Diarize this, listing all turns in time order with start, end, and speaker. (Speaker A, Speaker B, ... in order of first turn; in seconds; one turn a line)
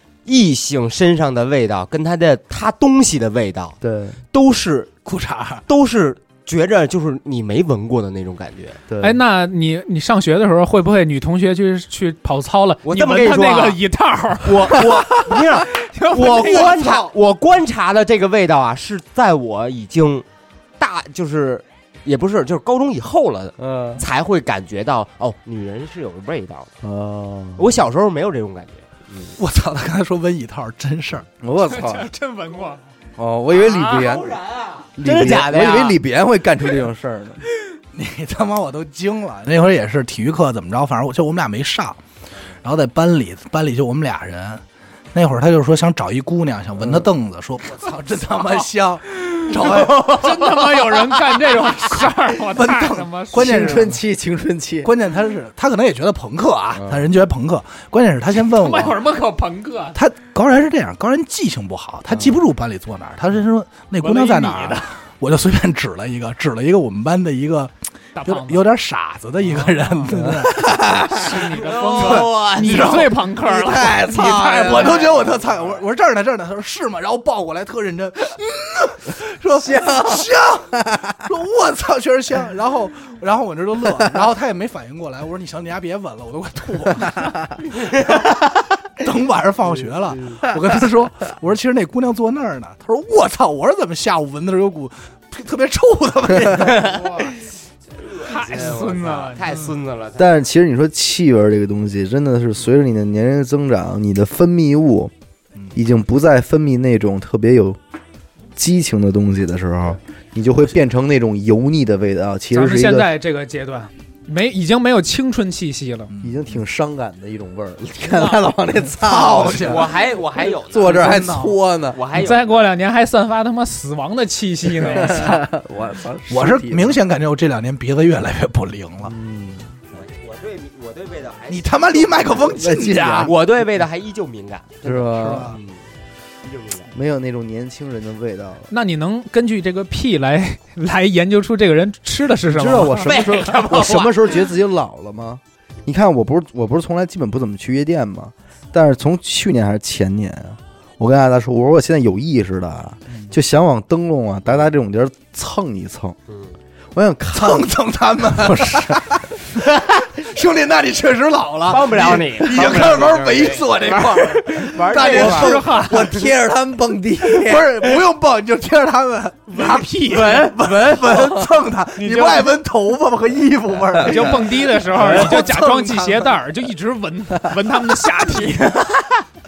Speaker A: 0.2-3.8
Speaker B: 3.8-4.2
Speaker A: 4.3-5.0
Speaker C: 5.0-5.6
Speaker A: 5.7-8.8
Speaker B: 8.9-9.2
Speaker D: 9.0-17.0
Speaker A: 12.8-13.8
Speaker A: 14.4-20.2
Speaker A: 20.8-26.7
Speaker B: 23.6-24.0
Speaker B: 26.8-27.7
Speaker A: 27.6-29.4
Speaker C: 29.4-31.2
Speaker B: 31.4-32.1
Speaker D: 31.6-32.8
Speaker B: 33.2-34.4
Speaker A: 33.5-36.0
Speaker B: 35.0-37.4
Speaker C: 37.9-42.0
Speaker C: 42.6-44.6
Speaker C: 45.1-50.6
Speaker B: 46.8-47.1
Speaker D: 49.2-53.9
Speaker C: 52.4-54.0
Speaker B: 53.3-54.9
Speaker C: 54.8-59.0
Speaker B: 56.7-57.1
Speaker D: 58.4-60.0
Speaker C: 59.9-67.7
Speaker B: 62.1-62.4
Speaker D: 64.0-64.8
Speaker D: 68.2-68.7
Speaker C: 68.2-70.8
Speaker D: 69.6-70.0
Speaker B: 70.1-75.2
Speaker D: 71.1-75.1
Speaker A: 71.6-72.9
Speaker C: 71.9-73.2
Speaker C: 73.7-88.3
Speaker B: 79.6-81.1
Speaker C: 89.0-97.3
Speaker A: 96.5-97.3
Speaker A: 98.0-100.3
Speaker D: 98.2-99.5
Speaker B: 100.2-105.1
Speaker B: 105.7-107.8
Speaker B: 108.5-113.1
Speaker D: 112.5-116.1
Speaker C: 116.1-116.4
Speaker B: 116.2-119.9
Speaker D: 118.1-118.3
Speaker C: 119.0-119.9
Speaker A: 119.4-121.2
Speaker B: 120.7-122.0
Speaker C: 120.8-121.5
Speaker A: 121.9-122.5
Speaker D: 122.1-125.4
Speaker B: 124.8-127.0
Speaker C: 126.3-129.1
Speaker B: 129.0-129.7
Speaker A: 129.9-132.7
Speaker C: 131.5-133.3
Speaker B: 132.5-133.3
Speaker A: 133.2-135.8
Speaker B: 134.8-135.5
Speaker C: 134.8-135.6
Speaker A: 136.4-136.9
Speaker B: 136.9-138.7
Speaker D: 138.7-143.3
Speaker B: 142.5-156.2
Speaker A: 142.8-144.5
Speaker A: 156.3-156.5
Speaker B: 156.9-157.7
Speaker C: 157.3-159.2
Speaker B: 158.3-159.0
Speaker A: 159.6-160.0
Speaker C: 160.1-165.6
Speaker A: 161.7-166.3
Speaker B: 164.9-167.8
Speaker D: 165.0-166.2
Speaker C: 167.3-176.3
Speaker D: 169.5-170.5
Speaker A: 170.1-171.2
Speaker B: 171.0-171.5
Speaker D: 172.0-172.5
Speaker B: 174.0-174.4
Speaker D: 174.0-178.7
Speaker B: 174.9-175.4
Speaker A: 178.4-179.2